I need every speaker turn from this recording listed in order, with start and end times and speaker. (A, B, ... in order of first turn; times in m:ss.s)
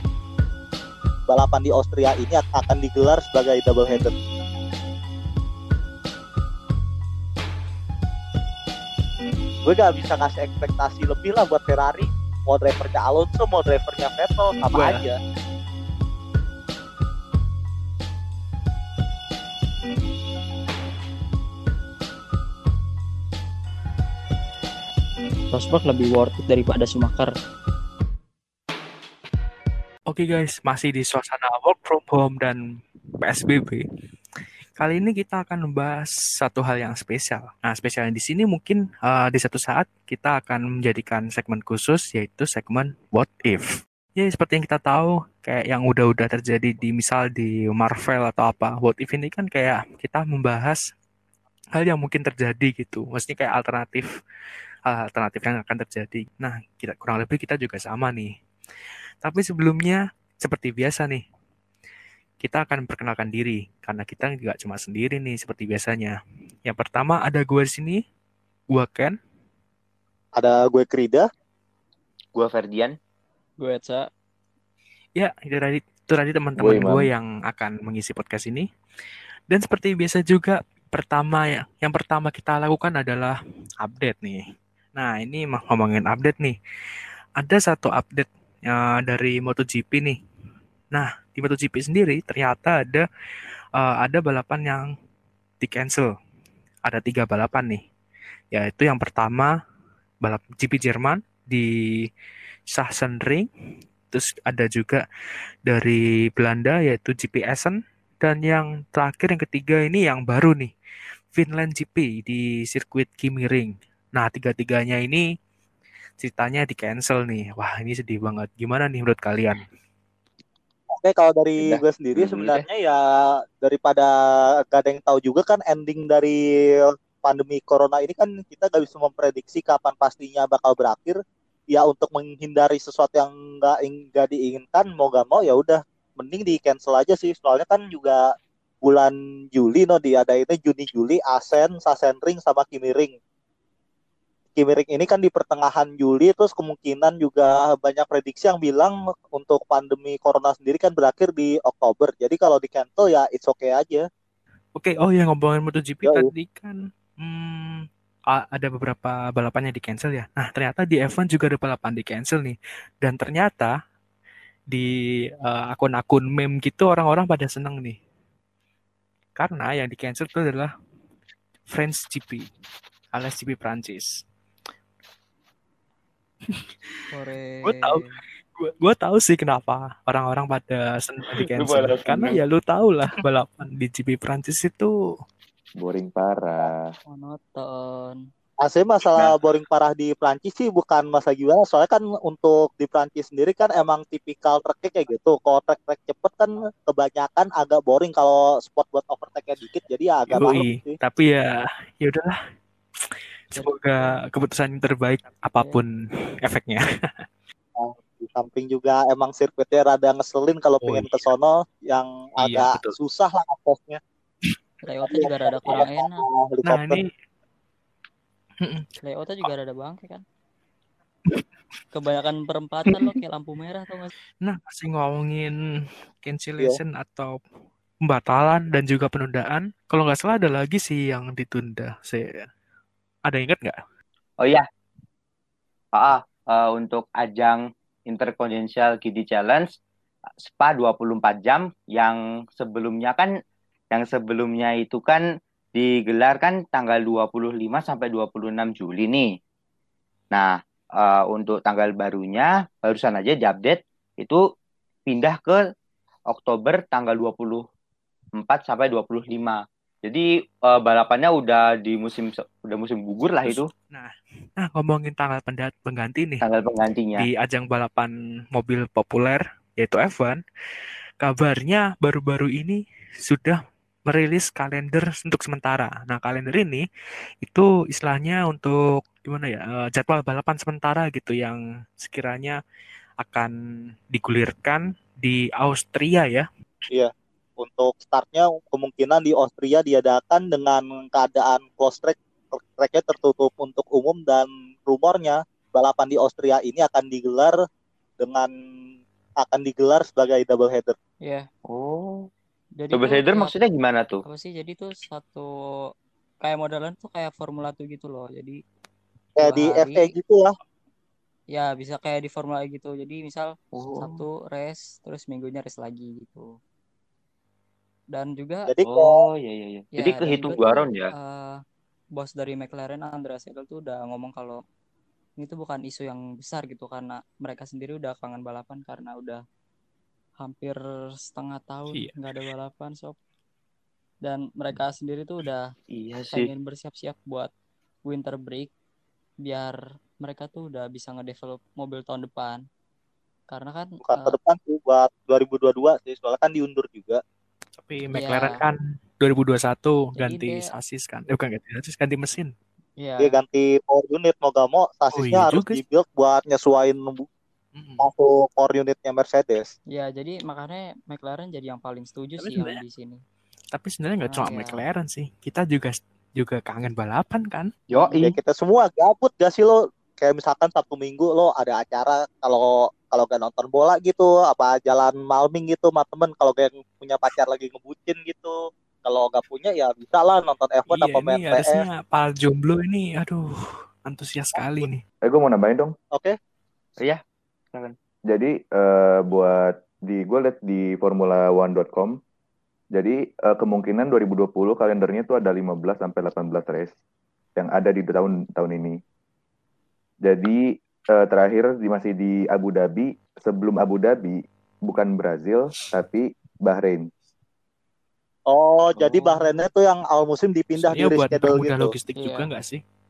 0:01.3-0:04.1 A
0:09.6-0:15.2 A
0:14.7-0:15.0 B
0:25.5-0:27.3 C
0:30.1-0:32.6 B
0:33.2-0:33.8 B
0:34.8-0:43.6 B
0:44.2-0:50.8 B
0:51.8-0:54.1 B
0:54.9-0:58.3 B
0:59.2-1:01.2 B
1:02.4-1:08.0 B
1:08.7-1:09.1 B
1:10.3-1:11.2 A
1:12.3-1:12.9 D
1:13.6-1:14.1 C
1:15.2-1:18.7 B
1:16.6-1:17.1 E
1:19.5-1:24.4 B
1:25.0-1:26.6 B
1:27.4-1:30.2 B
1:30.9-1:33.0 B
1:33.8-1:34.9 B
1:35.6-1:36.1 B
1:36.8-1:37.8 B
1:38.5-1:39.5 B
1:40.2-1:41.7 B
1:42.7-1:43.5 B
1:44.1-1:45.0 B
1:45.6-1:50.7 B
1:51.3-1:55.2 B
1:56.2-1:59.6 B
2:00.9-2:03.0 A
2:01.6-2:02.7 D
2:03.6-2:04.1 A
2:04.7-2:11.2 A
2:11.7-2:18.2 A
2:18.8-2:23.1 A
2:24.6-2:34.0 A
2:34.8-2:43.7 B
2:45.4-2:48.0 B
2:49.4-2:50.7 B
2:51.7-2:52.5 B
2:53.1-2:54.2 B
2:56.5-2:57.0 B
2:57.1-2:58.2 C
2:57.6-3:04.9 B
3:01.3-3:02.4 D
3:05.8-3:06.9 E
3:07.1-3:08.2 C
3:08.6-3:21.0 A
3:20.3-3:22.4 B
3:23.0-3:25.9 B
3:23.5-3:24.2 C
3:26.4-3:27.2 B
3:27.8-3:34.0 A
3:30.8-3:31.3 B
3:32.4-3:33.0 B
3:34.8-3:36.2 C
3:34.9-3:37.0 A
3:36.6-3:37.1 B
3:38.6-3:38.9 B
3:39.0-3:40.2 C
3:41.9-3:44.1 C
3:44.4-3:45.5 B
3:46.2-3:47.4 B
3:48.0-3:52.3 B
3:53.2-3:53.8 B
3:55.9-3:59.7 D
4:00.4-4:03.3 D
4:03.9-4:05.2 D
4:05.7-4:09.3 D
4:10.3-4:14.4 D
4:15.1-4:15.6 D
4:16.3-4:17.6 D
4:18.4-4:23.7 D
4:23.4-4:26.4 B
4:26.4-4:27.3 D
4:27.2-4:30.4 B
4:31.2-4:36.8 B
4:37.4-4:42.6 B
4:43.2-4:43.5 B
4:44.1-4:46.4 B
4:46.9-4:57.6 A
4:58.2-4:58.5 A
4:59.4-5:00.9 A
5:01.7-5:02.3 D
5:02.8-5:03.5 C
5:02.9-5:04.2 D
5:04.2-5:05.5 C
5:06.4-5:08.6 C
5:09.4-5:10.6 A
5:09.4-5:10.1 C
5:11.5-5:16.5 C
5:13.7-5:14.2 D
5:18.1-5:18.7 C
5:18.7-5:19.2 A
5:18.8-5:21.1 D
5:19.9-5:21.6 C
5:22.2-5:24.6 C
5:25.4-5:29.4 C
5:30.4-5:33.2 C
5:31.9-5:32.5 B
5:34.2-5:35.7 C
5:35.9-5:36.5 D
5:36.3-5:37.5 C
5:38.0-5:38.7 C
5:39.4-5:42.6 C
5:43.5-5:44.4 C
5:44.0-5:47.2 A
5:47.8-5:52.5 B
5:48.1-5:48.6 C
5:50.2-5:50.7 C
5:53.0-5:53.4 C
5:53.2-5:57.2 A
5:55.1-5:55.8 B
5:57.7-5:58.0 B
5:58.0-5:59.7 A
5:59.9-6:03.2 C
6:02.4-6:02.8 B
6:03.7-6:07.7 B
6:04.3-6:04.8 C
6:07.9-6:08.4 D
6:08.2-6:18.5 A
6:19.0-6:21.8 A
6:20.9-6:23.5 B
6:24.0-6:25.0 B
6:25.2-6:25.9 E
6:28.3-6:32.1 E
6:33.0-6:36.9 E
6:37.6-6:39.0 E
6:40.2-6:40.6 E
6:41.1-6:47.1 E
6:48.5-6:51.9 A
6:49.1-6:49.5 C
6:50.8-6:52.8 B
6:52.2-6:52.5 C